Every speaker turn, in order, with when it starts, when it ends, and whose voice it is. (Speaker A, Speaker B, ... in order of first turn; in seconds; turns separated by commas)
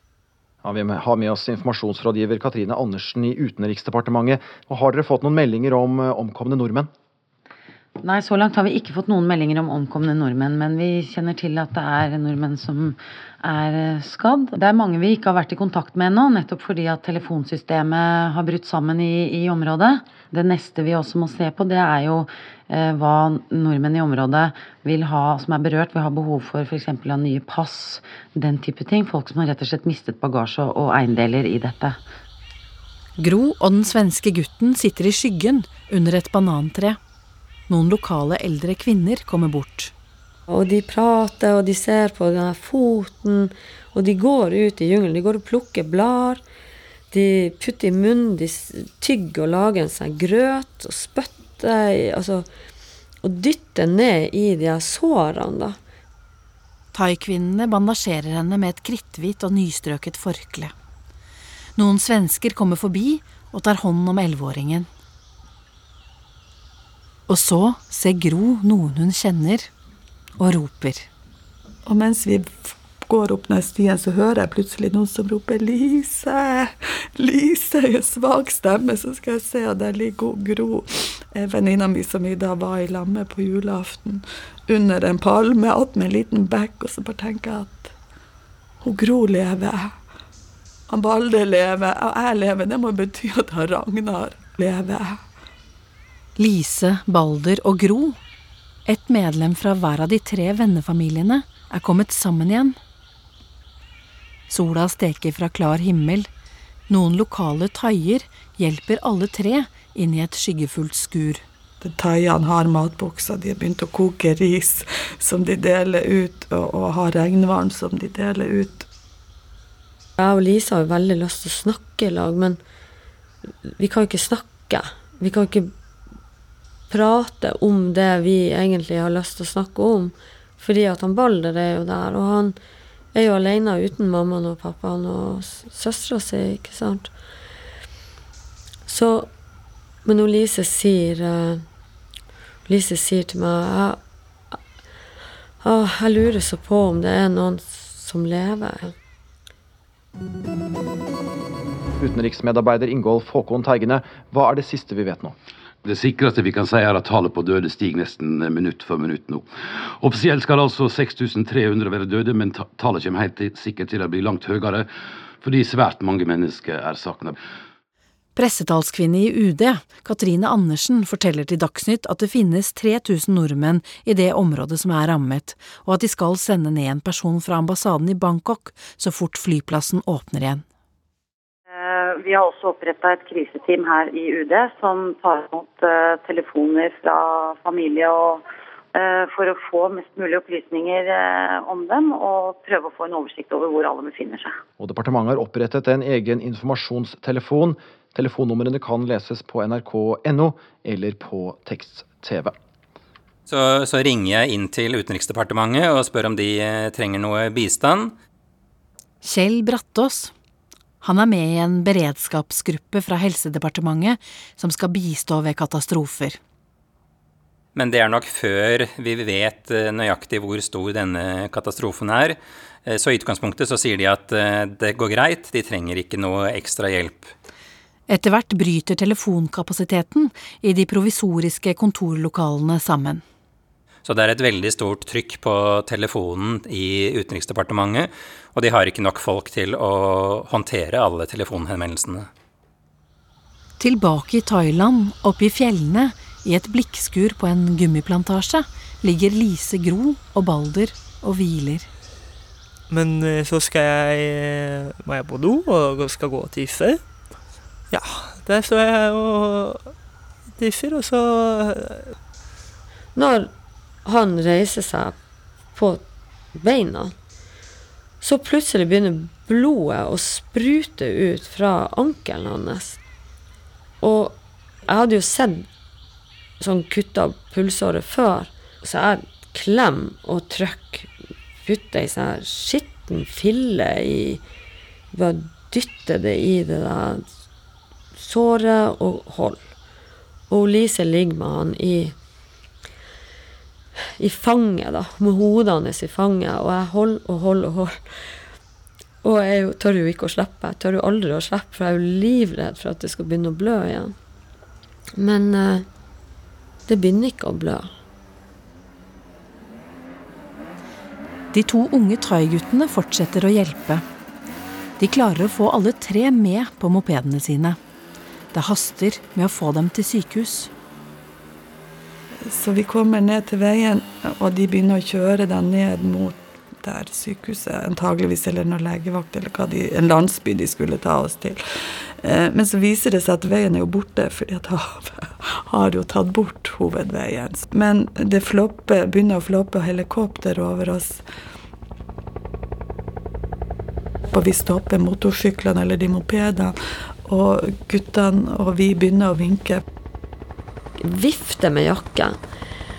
Speaker A: 0.6-6.9, Speaker B: 8.0-32.0, Speaker C: 33.2-37.0, Speaker C: 37.7-39.9, Speaker D: 40.5-46.4, Speaker D: 47.1-52.5, Speaker D: 53.2-55.8, Speaker C: 56.9-60.7, Speaker C: 61.8-64.9, Speaker C: 67.3-69.7, Speaker C: 70.4-71.1, Speaker E: 71.8-87.9, Speaker E: 88.8-90.0, Speaker E: 90.9-95.2, Speaker C: 96.4-98.2, Speaker C: 98.8-102.8, Speaker C: 104.5-106.3, Speaker C: 106.9-111.4, Speaker E: 111.8-118.9, Speaker D: 120.2-122.6, Speaker D: 123.7-125.7, Speaker D: 126.9-132.6, Speaker D: 133.1-137.1, Speaker D: 138.9-139.3, Speaker D: 140.0-141.6, Speaker D: 142.7-144.0, Speaker D: 145.6-148.9, Speaker A: 152.0-155.3, Speaker F: 155.8-164.9, Speaker F: 165.4-167.4, Speaker C: 168.3-180.6, Speaker G: 181.7-194.6, Speaker A: 194.8-202.5, Speaker H: 203.5-208.1, Speaker C: 209.2-210.3, Speaker C: 211.0-216.4, Speaker H: 217.7-227.3, Speaker C: 228.1-233.2, Speaker H: 234.0-242.3, Speaker C: 243.8-251.9, Speaker I: 252.9-257.0, Speaker I: 257.9-259.9, Speaker I: 260.6-262.1, Speaker D: 263.1-263.5, Speaker D: 264.1-265.1, Speaker D: 265.8-266.0, Speaker D: 266.6-267.1, Speaker D: 268.2-273.0, Speaker D: 274.0-274.4, Speaker D: 274.9-275.7, Speaker D: 276.6-281.1, Speaker D: 281.6-284.4, Speaker D: 285.1-287.2, Speaker D: 288.1-289.6, Speaker D: 290.5-292.1, Speaker D: 294.2-298.0, Speaker D: 299.2-304.1, Speaker D: 305.2-305.9, Speaker D: 306.9-307.9, Speaker C: 311.5-314.0, Speaker C: 315.0-317.8, Speaker C: 318.5-320.7, Speaker E: 322.4-331.6, Speaker E: 332.2-341.2, Speaker E: 344.3-349.8, Speaker D: 351.0-352.4